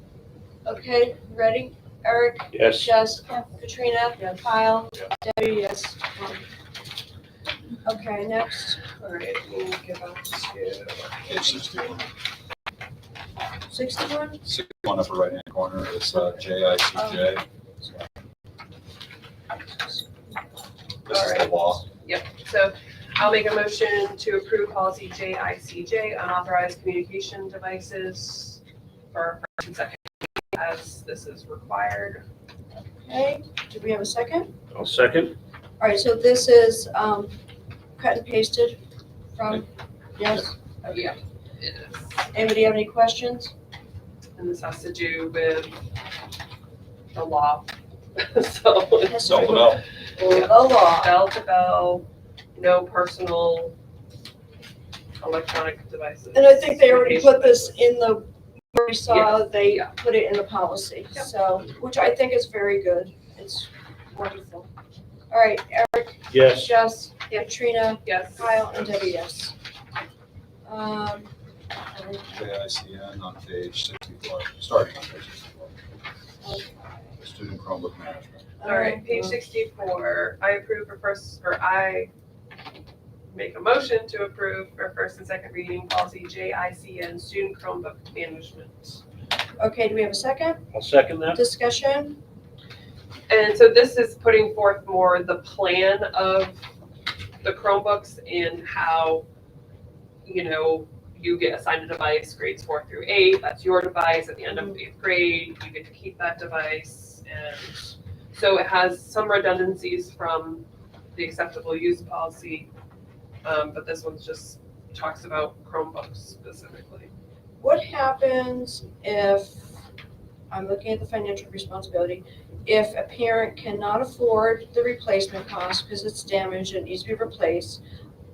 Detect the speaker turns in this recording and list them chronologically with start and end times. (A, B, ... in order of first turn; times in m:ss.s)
0:00.6-0:06.4 A
0:02.5-0:02.9 B
0:07.8-0:08.8 A
0:08.8-0:11.5 C
0:11.2-0:12.1 D
0:13.7-0:14.4 A
0:14.4-0:17.4 D
0:16.9-0:18.0 A
0:21.0-0:21.8 D
0:21.1-0:28.6 C
0:29.1-0:32.2 C
0:32.9-0:34.5 A
0:34.7-0:35.3 B
0:35.8-0:37.4 A
0:38.0-0:38.8 A
0:39.3-0:41.2 A
0:40.9-0:42.2 C
0:42.3-0:43.5 A
0:44.4-0:45.8 C
0:47.1-0:53.7 C
0:49.0-0:51.1 A
0:49.2-0:49.8 D
0:55.2-0:57.8 C
0:56.3-1:04.7 A
0:59.1-0:59.9 C
1:05.3-1:09.5 A
1:06.3-1:06.7 B
1:08.0-1:08.6 C
1:10.6-1:11.3 A
1:11.9-1:12.4 A
1:12.3-1:15.7 D
1:16.4-1:17.2 A
1:17.2-1:18.5 D
1:18.6-1:19.4 A
1:18.6-1:22.1 C
1:23.3-1:29.0 C
1:29.6-1:30.6 A
1:30.7-1:31.4 B
1:31.3-1:32.2 A
1:33.3-1:36.6 C
1:37.4-1:39.2 C
1:40.2-1:47.8 C
1:48.3-1:52.7 C
1:53.4-1:57.1 C
1:57.6-1:59.8 A
2:00.5-2:07.8 A